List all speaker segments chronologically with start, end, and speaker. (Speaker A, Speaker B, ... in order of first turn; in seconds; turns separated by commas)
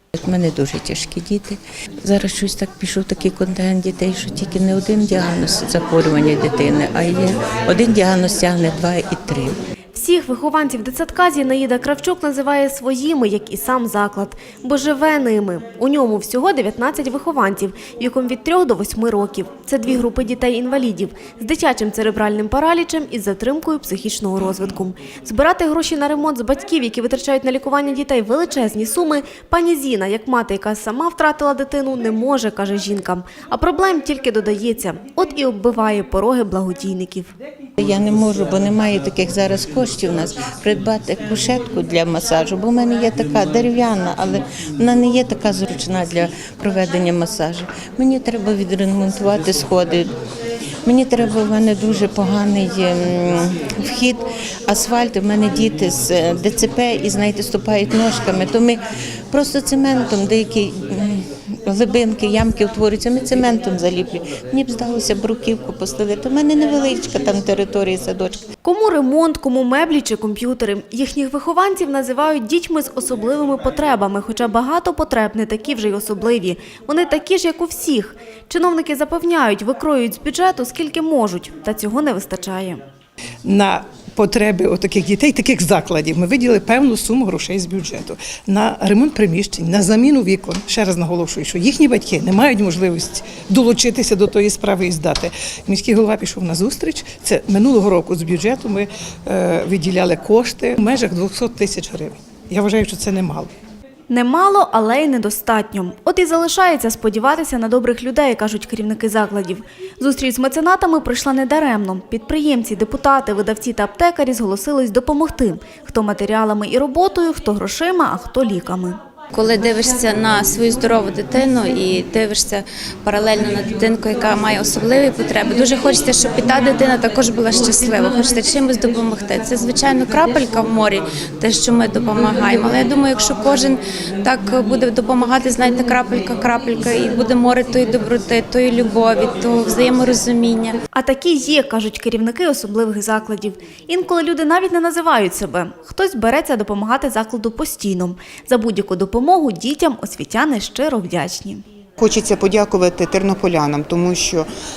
Speaker A: 0.2-9.6, Speaker B: 9.9-37.3, Speaker A: 37.8-50.1, Speaker A: 50.9-58.8, Speaker A: 59.3-68.4, Speaker B: 68.6-82.8, Speaker C: 83.5-103.5, Speaker B: 104.1-119.0, Speaker D: 119.3-140.8, Speaker B: 140.9-151.6, Speaker E: 152.0-154.5